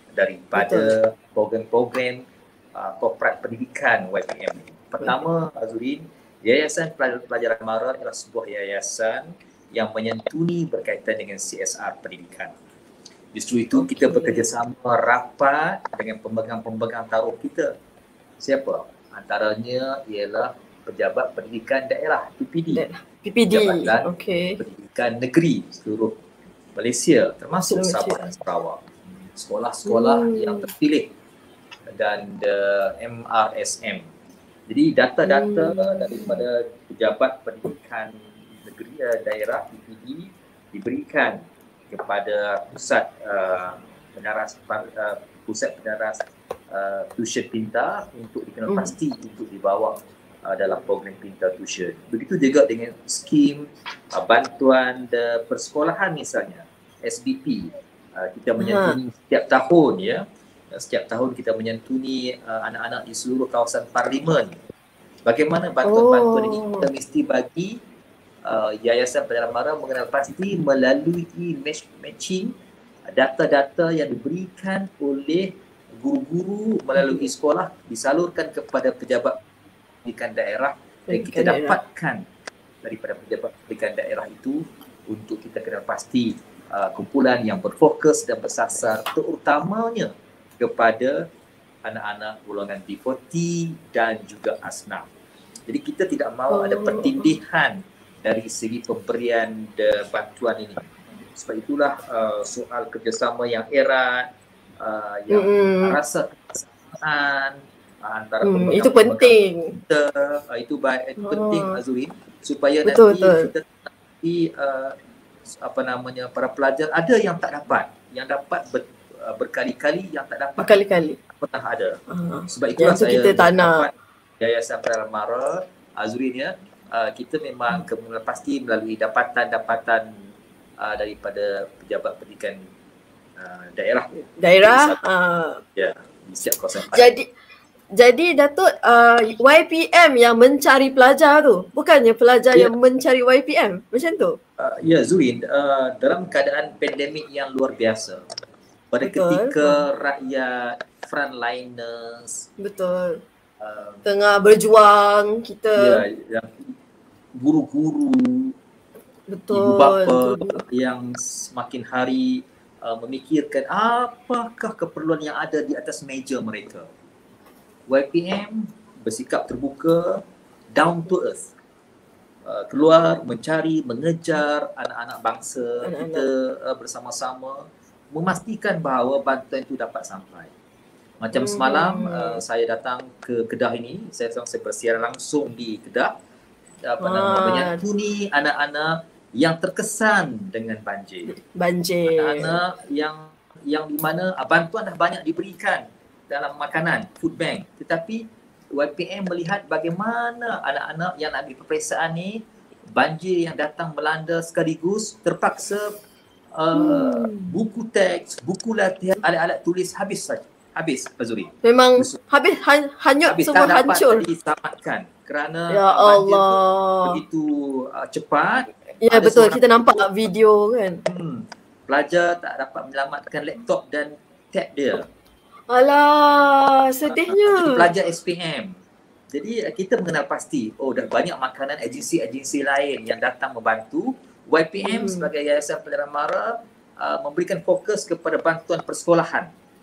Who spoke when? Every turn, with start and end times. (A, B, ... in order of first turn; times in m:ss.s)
0:00.2-0:02.2 A
0:00.5-0:00.9 B
0:02.7-0:12.5 A
0:13.3-0:17.7 A
0:13.7-0:14.4 B
0:18.4-0:22.8 A
0:22.7-0:24.6 B
0:23.5-0:24.1 A
0:24.6-0:26.1 A
0:26.8-0:28.8 A
0:27.7-0:28.3 B
0:29.4-0:31.1 A
0:29.8-0:30.6 B
0:31.9-0:34.0 A
0:34.7-0:46.2 A
0:35.2-0:36.4 B
0:46.7-1:04.6 A
0:58.6-0:59.0 B
1:05.2-1:07.8 A
1:05.8-1:06.9 B
1:08.4-1:12.5 A
1:13.0-1:19.4 A
1:20.0-1:22.2 A
1:21.1-1:21.8 B
1:22.8-1:31.2 A
1:31.8-1:35.1 A
1:35.7-1:44.3 A
1:36.5-1:37.3 B
1:44.8-1:49.4 A
1:45.3-1:46.0 B
1:48.4-1:49.7 B
1:49.9-1:55.0 A
1:51.2-1:51.8 B
1:52.8-1:53.5 B
1:55.5-2:00.8 A
2:00.6-2:01.2 B
2:01.4-2:02.0 A
2:02.1-2:03.9 B
2:02.5-2:10.1 A
2:10.8-2:12.6 A
2:13.4-2:14.1 A
2:14.4-2:15.6 B
2:14.6-2:15.0 A
2:15.8-2:17.0 A
2:16.9-2:17.3 B
2:18.0-2:24.4 B
2:24.6-2:28.2 A
2:28.9-2:32.5 A
2:29.0-2:29.8 B
2:32.6-2:33.2 B
2:33.6-2:34.0 A
2:34.0-2:36.0 B
2:35.8-2:36.7 A
2:37.4-2:38.5 A
2:39.3-2:40.6 B
2:39.5-2:46.9 A
2:47.9-2:51.4 A
2:52.4-3:00.5 A
2:55.8-2:56.3 B
3:01.2-3:06.1 A
3:01.3-3:02.4 B
3:06.8-3:11.3 A
3:07.0-3:07.8 B
3:11.3-3:12.6 B
3:12.1-3:22.4 A
3:22.9-3:25.9 A
3:26.5-3:32.2 A
3:26.7-3:27.5 B
3:31.6-3:34.2 B
3:33.3-3:39.9 A
3:35.7-3:37.2 B
3:39.0-3:41.0 B
3:41.1-3:45.1 A
3:45.7-3:47.8 B
3:47.1-3:48.7 A
3:49.3-3:59.5 A
3:54.8-3:55.3 B